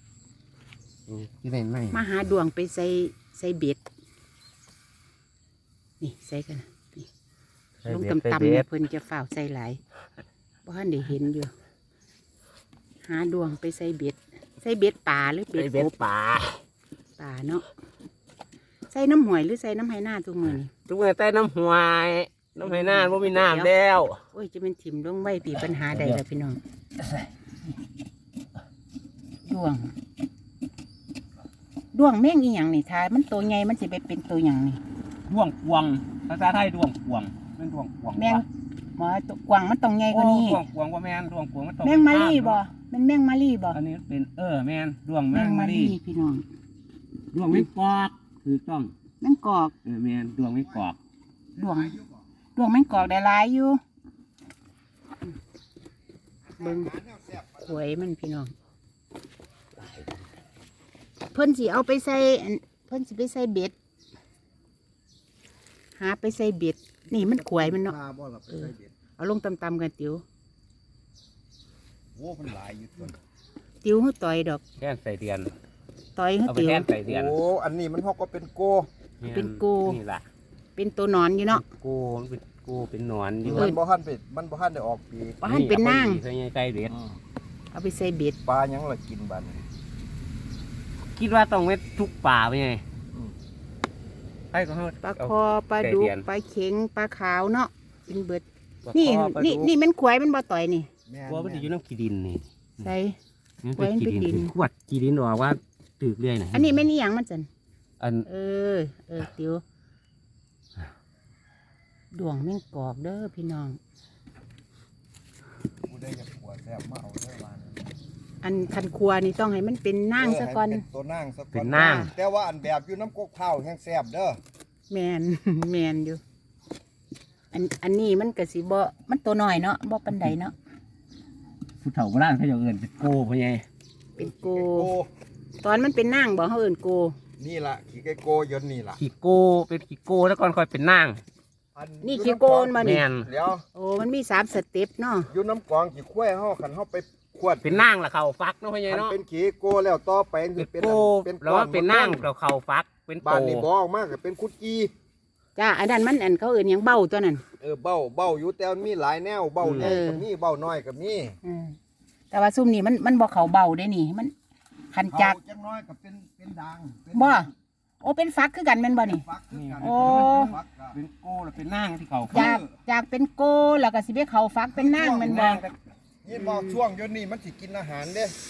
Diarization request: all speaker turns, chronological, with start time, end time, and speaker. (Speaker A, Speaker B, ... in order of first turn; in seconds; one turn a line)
Speaker A: 1.1-2.1
Speaker B: 1.9-3.8
Speaker B: 6.0-7.1
Speaker A: 7.8-8.7
Speaker B: 7.9-9.8
Speaker B: 10.7-11.5
Speaker B: 13.1-15.9
Speaker A: 15.6-16.6
Speaker B: 17.2-17.7
Speaker B: 18.9-20.7
Speaker A: 20.5-24.2
Speaker B: 22.6-23.7
Speaker B: 24.3-26.6
Speaker A: 25.9-26.2
Speaker B: 29.5-29.9
Speaker B: 31.9-34.8
Speaker A: 35.3-38.4
Speaker B: 38.1-38.5
Speaker B: 39.0-40.6
Speaker A: 40.1-42.6
Speaker B: 41.8-43.8
Speaker A: 43.7-46.0
Speaker B: 45.3-46.5
Speaker A: 47.3-48.9
Speaker B: 49.2-49.8
Speaker A: 49.8-51.0
Speaker B: 51.6-52.0
Speaker B: 52.6-53.8
Speaker C: 56.5-57.8
Speaker B: 56.6-56.9
Speaker B: 57.5-58.5
Speaker A: 59.8-60.1
Speaker B: 61.3-63.7
Speaker B: 66.0-68.0
Speaker C: 67.1-68.9
Speaker B: 68.5-70.2
Speaker C: 72.2-73.2
Speaker B: 73.8-74.6
Speaker A: 74.8-75.5
Speaker B: 76.2-76.9
Speaker A: 76.5-77.4
Speaker C: 77.0-78.9
Speaker A: 79.2-80.3
Speaker B: 79.3-80.0
Speaker B: 80.8-81.6
Speaker A: 81.5-83.8
Speaker C: 83.4-85.4
Speaker B: 85.4-86.2
Speaker A: 85.4-87.0
Speaker B: 87.7-88.4
Speaker C: 88.5-89.6
Speaker A: 91.2-92.8
Speaker A: 94.5-96.2
Speaker B: 95.0-100.9
Speaker A: 98.8-99.7
Speaker C: 101.1-101.7
Speaker A: 101.3-102.9
Speaker B: 102.8-103.2
Speaker A: 103.6-106.8
Speaker B: 103.8-104.5
Speaker B: 106.5-107.5
Speaker A: 108.0-108.3
Speaker B: 108.3-109.6
Speaker B: 112.1-113.8
Speaker C: 115.8-117.9
Speaker B: 118.4-120.8
Speaker C: 120.2-124.4
Speaker A: 121.5-122.1
Speaker B: 121.8-122.1
Speaker B: 124.9-126.2
Speaker B: 127.5-130.5
Speaker A: 131.8-133.7
Speaker B: 134.2-134.9
Speaker C: 134.2-135.1
Speaker B: 135.6-137.2
Speaker C: 137.4-139.0
Speaker A: 139.0-141.2
Speaker C: 141.8-143.7
Speaker B: 142.0-143.1
Speaker A: 142.8-143.3
Speaker B: 143.7-145.3
Speaker C: 145.3-147.9
Speaker A: 147.6-149.2
Speaker C: 148.9-152.3
Speaker A: 150.6-153.7
Speaker C: 153.2-154.9
Speaker B: 155.6-157.4
Speaker C: 157.6-161.4
Speaker A: 159.6-160.0
Speaker B: 159.8-160.2
Speaker B: 161.4-161.8
Speaker B: 162.3-164.3
Speaker B: 164.9-165.4
Speaker C: 165.1-167.5
Speaker B: 167.1-167.5
Speaker B: 168.0-169.2
Speaker C: 169.0-171.0
Speaker A: 169.5-172.5
Speaker B: 169.8-170.6
Speaker C: 172.3-172.7
Speaker B: 172.3-175.7
Speaker C: 174.7-175.7
Speaker C: 176.2-178.4
Speaker B: 176.3-176.8